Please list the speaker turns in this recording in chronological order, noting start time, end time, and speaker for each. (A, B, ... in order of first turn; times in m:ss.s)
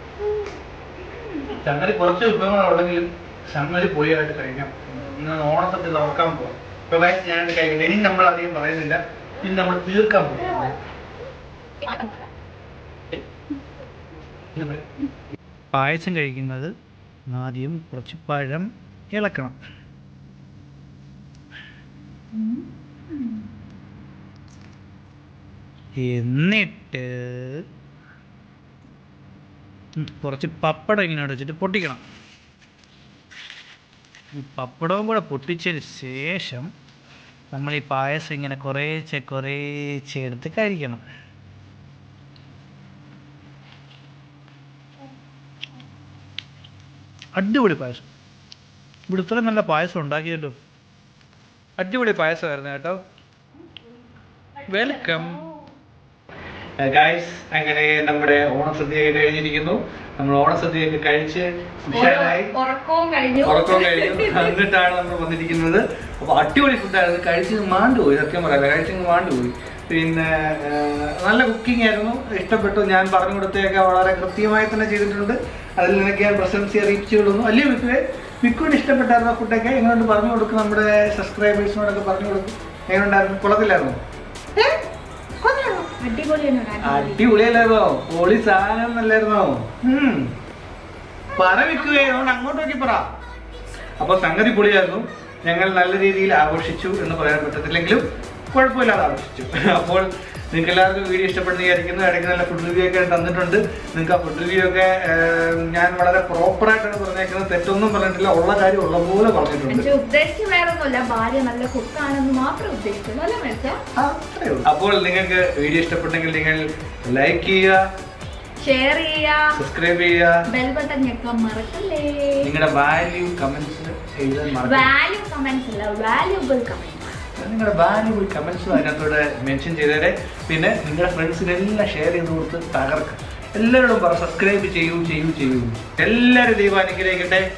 0:01.4-0:10.8 A
0:11.8-0:12.2 B
0:14.5-0:14.8 A
0:15.7-0:16.7 A
0:17.3-0:19.6 A
0:22.3-0:23.5 B
0:26.0-0:27.6 A
0:30.0-0:32.0 A
0:34.3-0:36.7 A
0:37.5-0:41.0 A
0:47.4-0:48.0 A
0:49.1-0:50.6 A
0:51.8-0:53.0 A
0:54.7-0:55.5 A
0:56.8-1:02.5 A
1:01.9-1:04.6 B
1:03.4-1:24.0 A
1:25.4-1:27.3 B
1:26.8-1:30.3 A
1:31.4-1:33.0 A
1:34.0-1:49.9 A
1:49.7-1:53.8 B
1:54.0-1:57.8 A
1:58.6-1:59.6 B
1:59.5-2:00.4 A
2:00.5-2:02.5 B
2:02.4-2:04.9 A
2:04.6-2:07.1 B
2:07.4-2:17.5 A